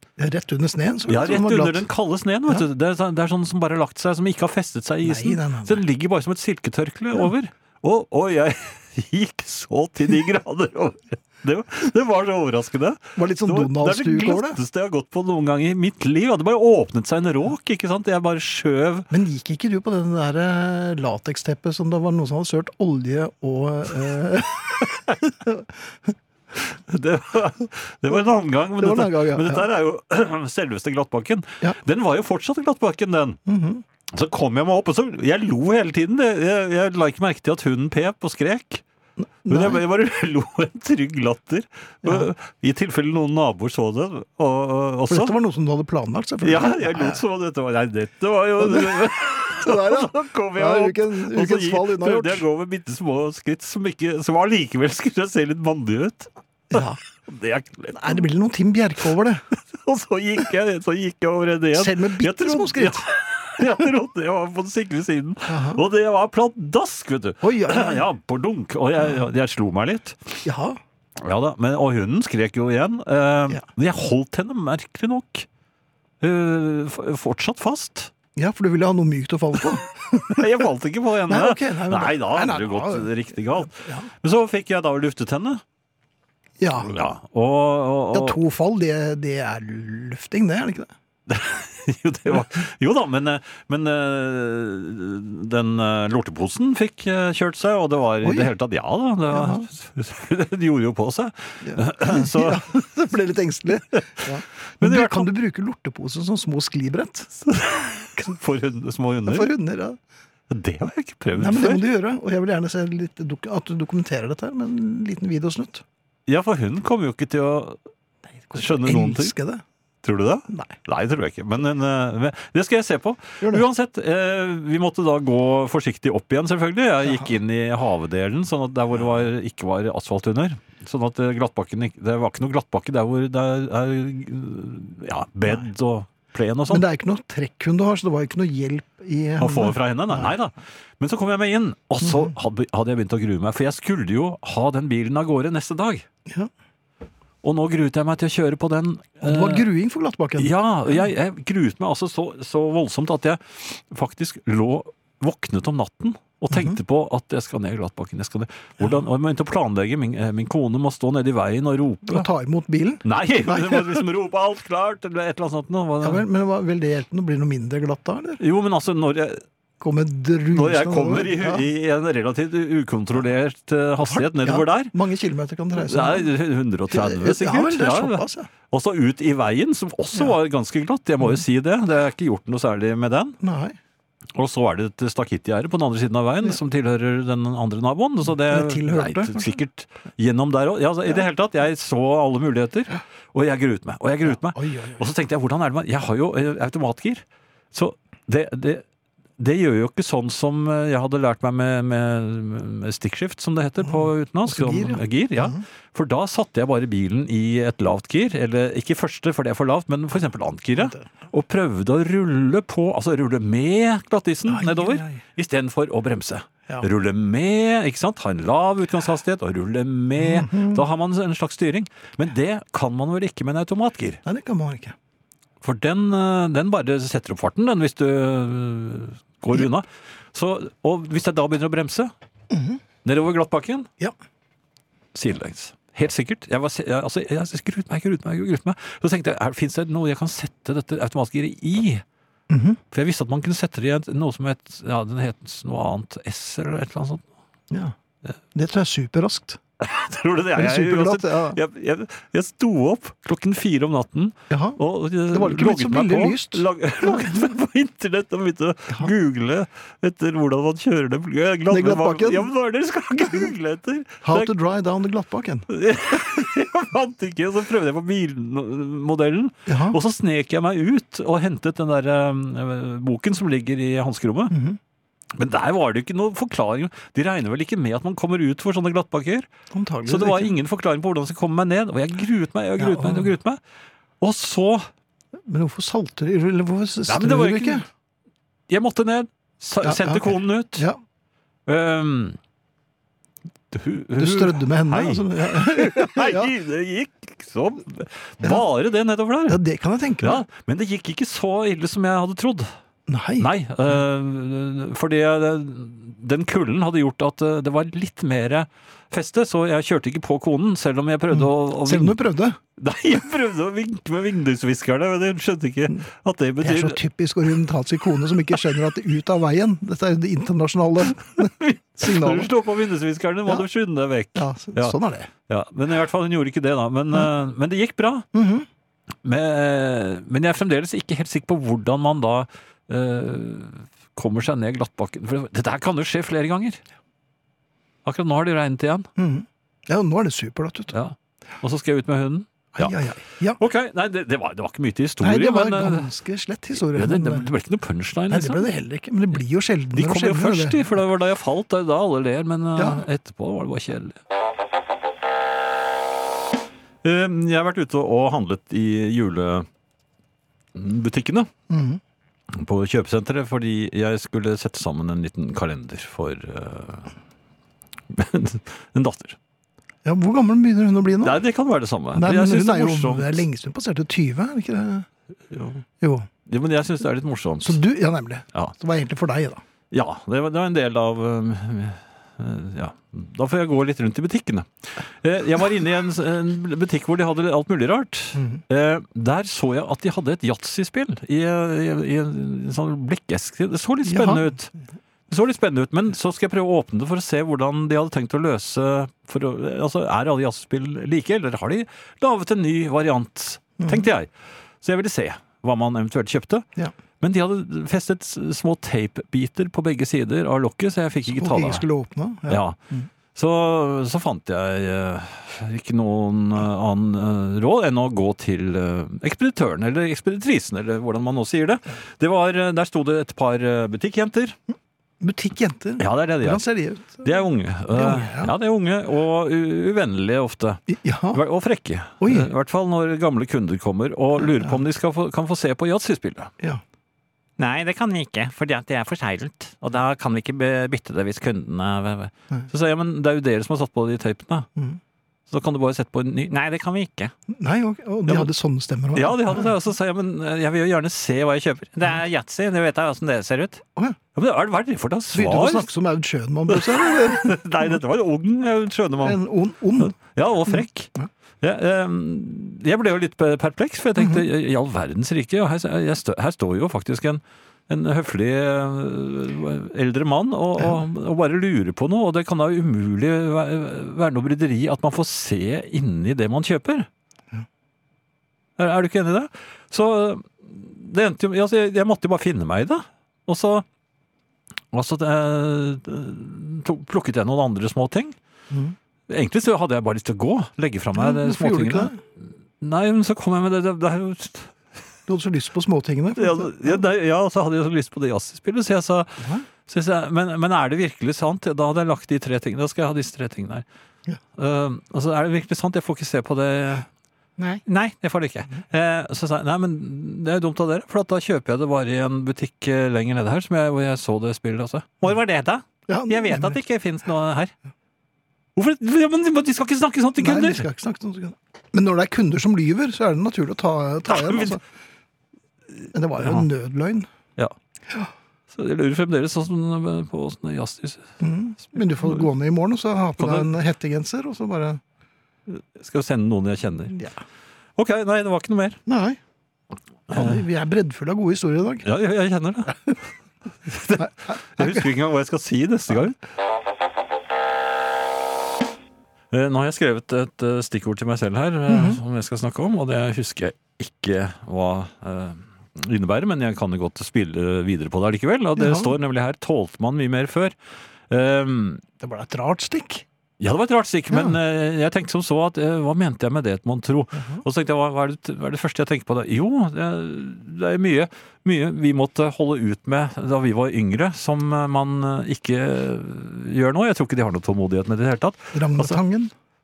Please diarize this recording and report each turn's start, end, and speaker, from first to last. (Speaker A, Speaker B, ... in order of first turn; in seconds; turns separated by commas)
Speaker A: 0.2-1.9, Speaker B: 1.1-19.1, Speaker A: 5.0-5.8, Speaker A: 13.2-14.6, Speaker A: 19.1-26.1, Speaker B: 26.5-33.4, Speaker A: 28.8-29.6, Speaker A: 33.5-33.8, Speaker B: 34.1-38.8, Speaker A: 39.2-39.8, Speaker B: 39.5-45.4, Speaker A: 45.1-47.2, Speaker B: 46.4-58.2, Speaker A: 48.6-48.9, Speaker A: 49.5-52.5, Speaker A: 56.7-57.0, Speaker A: 57.9-59.5, Speaker B: 59.5-70.4, Speaker A: 61.8-63.0, Speaker A: 65.5-65.8, Speaker A: 67.4-68.0, Speaker A: 70.4-70.8, Speaker B: 71.2-75.5, Speaker B: 76.2-78.1, Speaker A: 78.4-80.5, Speaker B: 80.3-85.6, Speaker A: 81.3-84.1, Speaker A: 86.6-86.9, Speaker B: 86.8-88.4, Speaker A: 88.1-90.9, Speaker B: 91.3-102.7, Speaker A: 98.2-98.5, Speaker A: 99.3-99.7, Speaker A: 101.6-107.4, Speaker B: 104.8-105.3, Speaker B: 107.5-109.5, Speaker A: 109.3-110.0, Speaker B: 110.5-111.8, Speaker A: 111.4-115.8, Speaker B: 116.3-117.8, Speaker A: 118.5-119.6, Speaker B: 118.5-119.3, Speaker B: 120.0-136.8, Speaker A: 136.7-140.3, Speaker B: 139.4-146.1, Speaker A: 142.0-142.3, Speaker B: 147.4-149.7, Speaker A: 149.2-151.1, Speaker B: 150.4-162.3, Speaker A: 162.1-164.0, Speaker B: 163.0-166.3, Speaker A: 166.0-168.4, Speaker B: 168.4-169.4, Speaker A: 169.8-171.6, Speaker B: 170.5-174.9, Speaker A: 174.0-176.3, Speaker B: 175.8-183.4, Speaker A: 176.9-178.5, Speaker A: 183.4-183.8, Speaker B: 184.3-198.8, Speaker A: 188.4-189.6, Speaker A: 194.3-195.0, Speaker B: 199.4-224.2, Speaker A: 203.9-205.6, Speaker A: 210.8-211.1, Speaker A: 214.5-215.2, Speaker A: 220.2-220.8, Speaker A: 224.2-224.9, Speaker B: 225.6-232.1, Speaker A: 232.5-232.8, Speaker B: 233.0-233.9, Speaker B: 235.1-242.0, Speaker A: 242.5-242.8, Speaker B: 242.9-247.2, Speaker A: 248.5-249.6, Speaker B: 249.8-264.5, Speaker A: 250.6-251.6, Speaker A: 254.5-254.8, Speaker A: 255.3-257.4, Speaker A: 261.7-262.5, Speaker A: 264.2-265.7, Speaker B: 265.7-274.5, Speaker A: 269.7-270.0, Speaker A: 274.5-274.8, Speaker B: 275.3-279.5, Speaker A: 279.7-280.5, Speaker B: 280.1-283.6, Speaker A: 282.8-283.3, Speaker B: 284.2-284.9, Speaker A: 285.4-287.9, Speaker B: 287.1-287.9, Speaker B: 288.7-290.9, Speaker A: 289.8-291.0, Speaker B: 291.7-292.4, Speaker B: 293.7-299.6, Speaker A: 294.2-296.5, Speaker A: 299.5-300.4, Speaker B: 300.2-302.7, Speaker A: 303.1-303.5, Speaker B: 303.4-312.2, Speaker A: 311.3-312.6, Speaker B: 312.8-317.0, Speaker A: 316.6-322.5, Speaker B: 321.4-324.9, Speaker A: 324.3-325.3, Speaker B: 325.5-328.3, Speaker A: 328.3-328.7, Speaker B: 329.2-336.8, Speaker B: 338.1-339.1, Speaker A: 339.2-340.9, Speaker B: 340.9-343.0, Speaker A: 342.8-343.6, Speaker B: 343.6-346.1, Speaker A: 345.2-347.5, Speaker B: 346.7-348.7, Speaker A: 348.3-351.0, Speaker B: 349.9-354.2, Speaker A: 352.8-353.1, Speaker B: 357.0-359.7, Speaker B: 360.7-361.5, Speaker A: 361.7-362.0, Speaker B: 362.5-367.1, Speaker B: 368.1-369.4, Speaker A: 370.1-371.4, Speaker B: 371.2-373.4, Speaker A: 372.1-375.1, Speaker B: 375.5-375.8, Speaker A: 376.0-376.3, Speaker B: 376.5-377.8, Speaker A: 377.6-379.6, Speaker B: 379.9-394.7, Speaker A: 388.4-388.6, Speaker A: 394.1-394.4, Speaker B: 395.3-404.3, Speaker A: 403.8-404.1, Speaker B: 404.8-406.7, Speaker B: 407.2-411.9, Speaker A: 411.3-413.1, Speaker B: 412.5-412.8, Speaker B: 413.4-424.6, Speaker A: 425.2-427.3, Speaker B: 426.0-436.5, Speaker A: 427.9-428.5, Speaker A: 430.9-431.4, Speaker A: 432.2-432.5, Speaker B: 437.6-444.7, Speaker B: 445.5-447.3, Speaker A: 447.5-449.7, Speaker B: 449.1-453.8, Speaker B: 454.4-455.9, Speaker A: 455.3-457.6, Speaker B: 456.7-459.4, Speaker A: 459.2-460.2, Speaker B: 460.0-461.1, Speaker A: 460.7-461.3, Speaker B: 461.6-477.1, Speaker A: 464.2-464.4, Speaker B: 478.8-483.9, Speaker B: 484.9-488.4, Speaker B: 489.3-494.8, Speaker A: 491.2-492.2, Speaker A: 495.3-497.0, Speaker B: 496.4-503.9, Speaker B: 504.5-507.1, Speaker B: 507.9-517.7, Speaker A: 516.1-516.8, Speaker B: 518.8-520.9, Speaker A: 520.4-524.9, Speaker B: 524.3-524.8, Speaker A: 526.1-527.3, Speaker B: 526.4-526.7, Speaker B: 528.7-531.3, Speaker A: 531.4-535.0, Speaker B: 532.2-532.5, Speaker B: 533.4-533.7, Speaker B: 535.7-537.1, Speaker B: 538.0-539.0, Speaker A: 539.1-539.4, Speaker A: 540.3-542.1, Speaker B: 540.3-540.6, Speaker B: 542.0-543.0, Speaker B: 543.9-546.4, Speaker A: 544.2-545.1, Speaker B: 549.5-560.8, Speaker A: 551.9-552.2, Speaker A: 558.8-559.1, Speaker B: 561.3-562.0, Speaker A: 562.2-563.2, Speaker B: 563.6-579.2, Speaker A: 567.4-567.6, Speaker A: 578.7-579.5